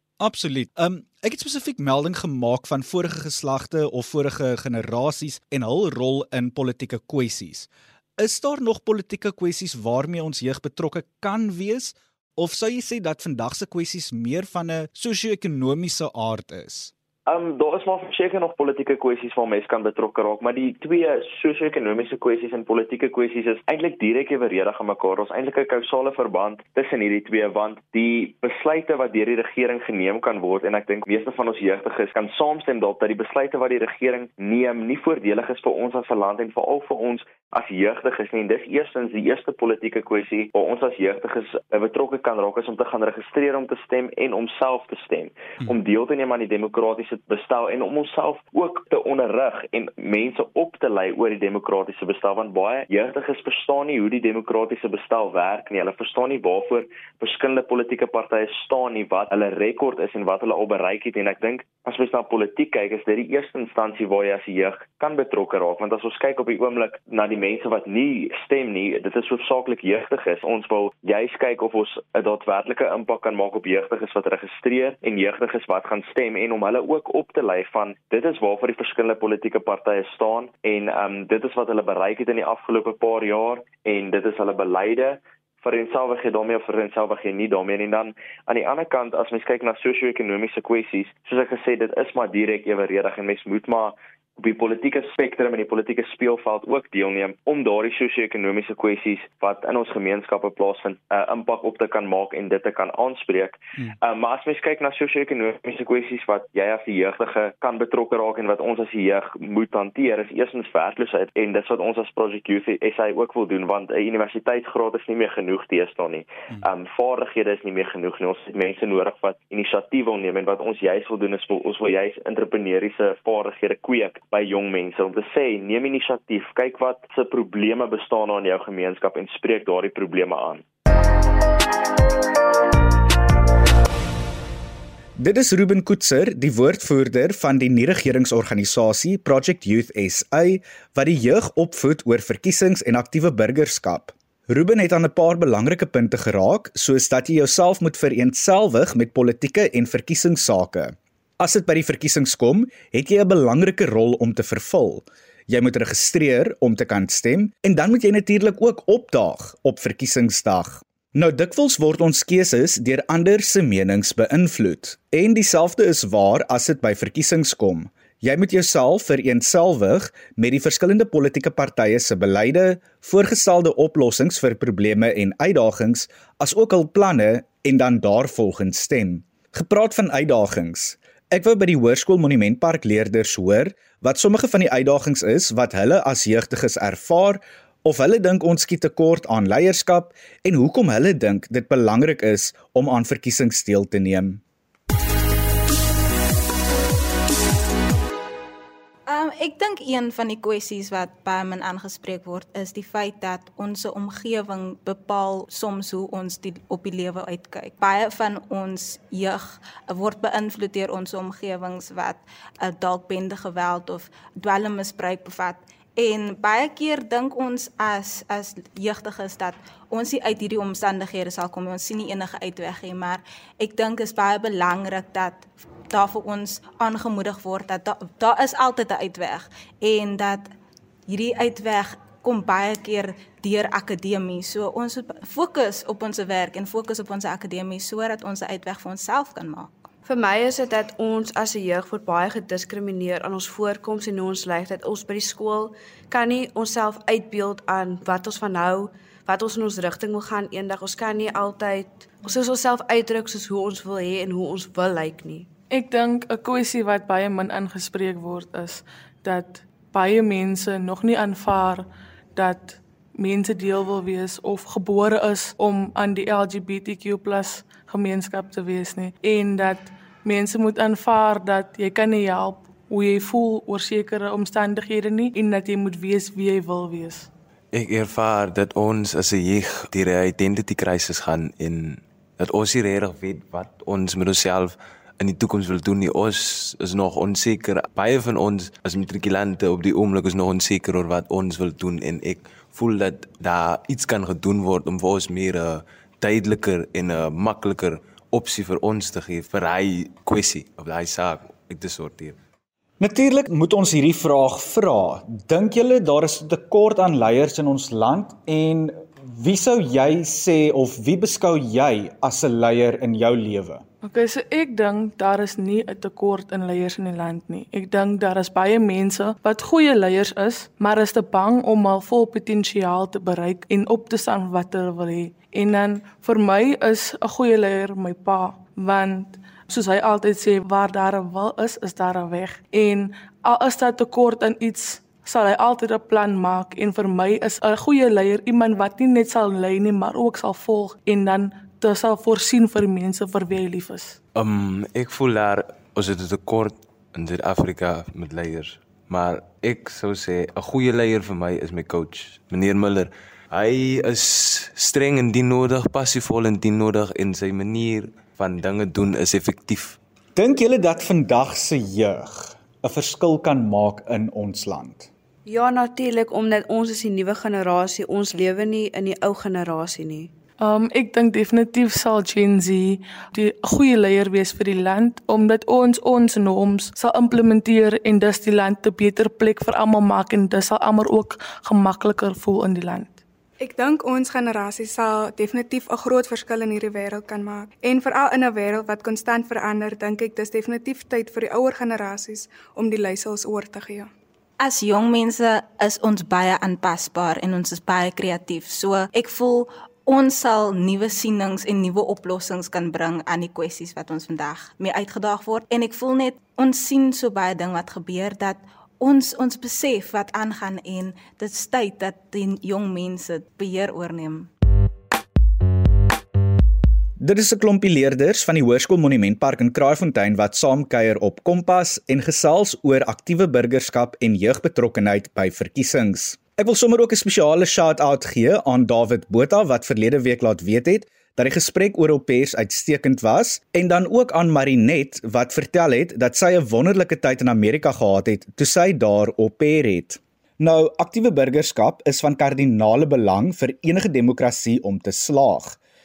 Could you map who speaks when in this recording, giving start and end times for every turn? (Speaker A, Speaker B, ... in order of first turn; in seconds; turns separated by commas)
Speaker A: 0.2-16.9, Speaker B: 17.2-130.6, Speaker A: 135.2-194.4, Speaker C: 199.1-230.5, Speaker C: 231.1-239.7, Speaker D: 240.1-255.5, Speaker E: 255.7-277.3, Speaker F: 277.7-302.4, Speaker A: 303.0-313.8, Speaker E: 314.0-344.2, Speaker F: 344.3-360.0, Speaker A: 360.4-365.1, Speaker D: 365.4-370.3, Speaker E: 370.6-383.2, Speaker G: 383.6-394.1, Speaker C: 394.6-414.5, Speaker A: 417.2-445.8